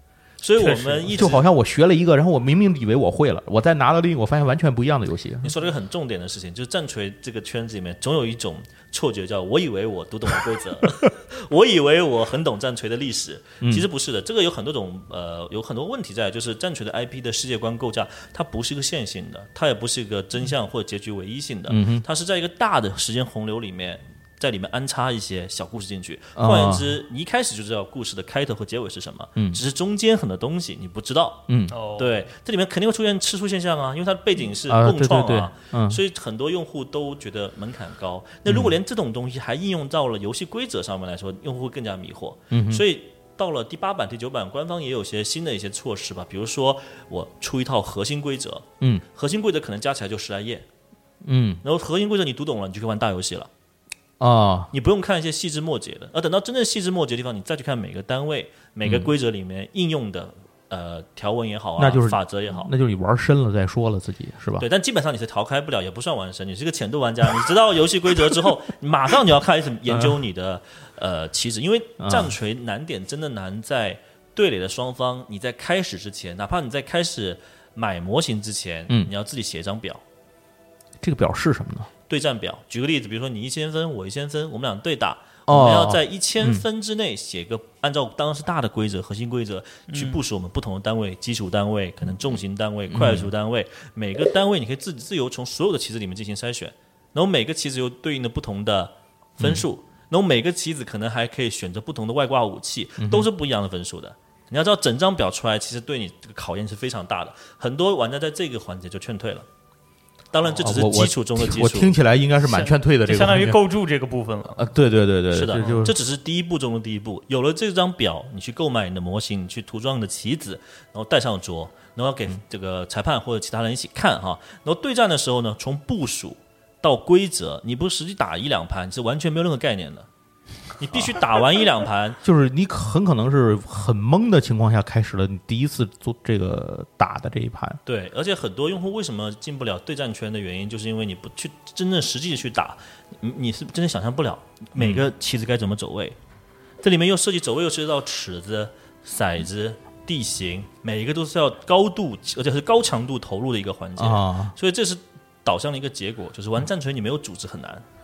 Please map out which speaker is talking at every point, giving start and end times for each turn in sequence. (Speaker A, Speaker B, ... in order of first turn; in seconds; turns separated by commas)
Speaker A: 0.4-1.5, Speaker B: 0.6-1.1, Speaker C: 1.1-5.6, Speaker A: 5.4-31.4, Speaker C: 13.6-13.9, Speaker C: 21.7-22.1, Speaker C: 26.4-26.9, Speaker C: 29.4-29.6, Speaker C: 31.5-31.7, Speaker B: 31.7-32.1, Speaker A: 32.0-50.7, Speaker C: 34.7-36.0, Speaker C: 38.5-38.8, Speaker C: 42.5-42.9, Speaker C: 51.2-51.6, Speaker A: 51.6-53.5, Speaker C: 54.2-54.7, Speaker A: 54.7-62.7, Speaker C: 58.8-59.1, Speaker C: 61.8-64.7, Speaker A: 64.6-80.0, Speaker C: 72.0-72.4, Speaker C: 81.0-81.9, Speaker A: 82.1-109.5, Speaker C: 85.5-86.7, Speaker B: 89.9-90.2, Speaker C: 92.9-93.3, Speaker C: 103.0-103.3, Speaker A: 110.3-112.0, Speaker C: 110.6-113.6, Speaker B: 112.4-114.6, Speaker C: 114.5-116.0, Speaker A: 115.3-130.1, Speaker B: 115.5-115.9, Speaker A: 130.8-132.2, Speaker C: 132.2-137.8, Speaker A: 137.9-146.2, Speaker C: 144.8-145.1, Speaker A: 146.8-157.8, Speaker C: 154.0-154.6